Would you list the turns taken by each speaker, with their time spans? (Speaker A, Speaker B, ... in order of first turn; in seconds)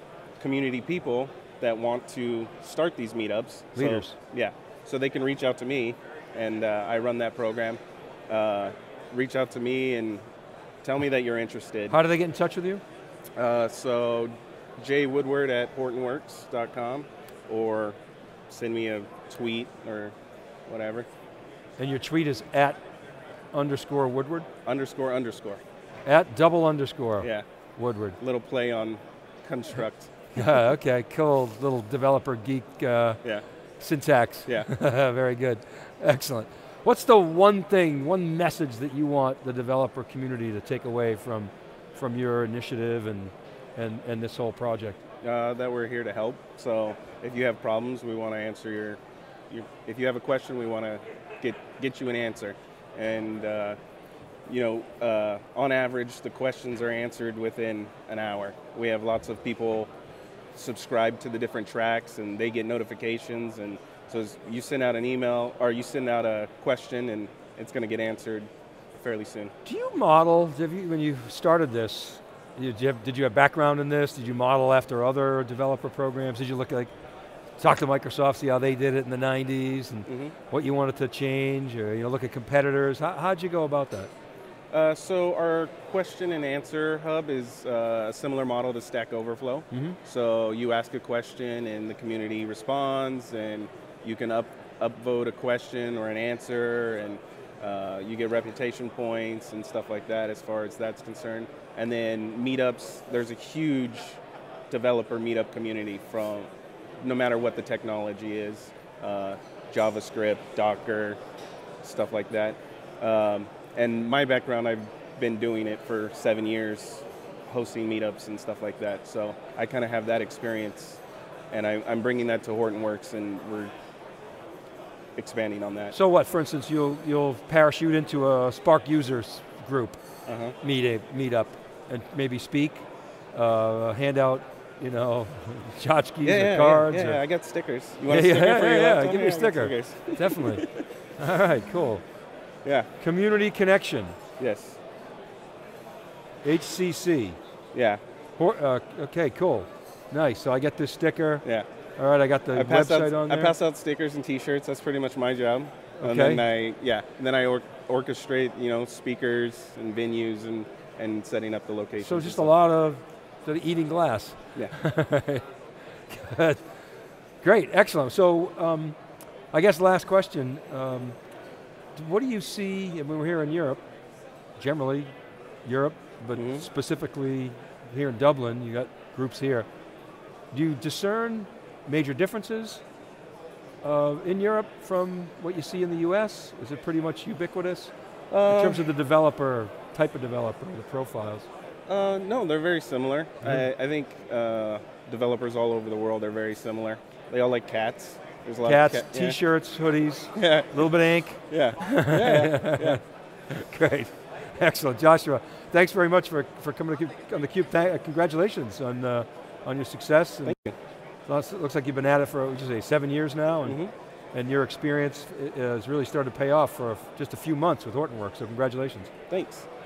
Speaker A: 0.4-10.2, 10.8-11.9, 13.4-18.0, 18.5-20.1, 20.7-21.1, 24.7-25.6, 27.2-27.4, 28.2-30.1, 45.2-49.0, 49.5-53.8, 54.5-59.9, 60.5-69.5, 80.1-80.3, 84.7-104.2, 104.7-106.5, 107.0-111.2, 111.8-121.0, 121.5-123.7, 125.2-125.9, 130.3-130.6, 136.2-140.8, 144.4-144.8, 147.7-148.0, 152.5-162.5, 176.4-176.7, 188.3-188.9, 191.9-199.4, 200.3-200.9, 201.5-203.0, 210.4-210.7, 213.7-213.9, 219.3-219.7
Speaker B: 3.8-4.2, 11.9-12.8, 21.8-22.8, 23.5-24.5, 26.1-28.2, 30.3-33.2, 33.8-45.0, 69.7-76.9, 77.6-84.1, 89.7-90.0, 125.9-130.0, 130.6-137.2, 138.1-140.7, 141.2-142.0, 143.0-144.2, 146.4-147.4, 148.4-151.4, 152.0-153.5, 156.0-156.4, 162.0-165.4, 166.1-166.6, 167.4-169.0, 169.5-171.2, 171.9-173.8, 174.6-175.1, 175.6-179.7, 180.5-182.8, 183.8-187.9, 188.5-191.5, 198.6-210.6, 211.3-213.8, 214.3-219.1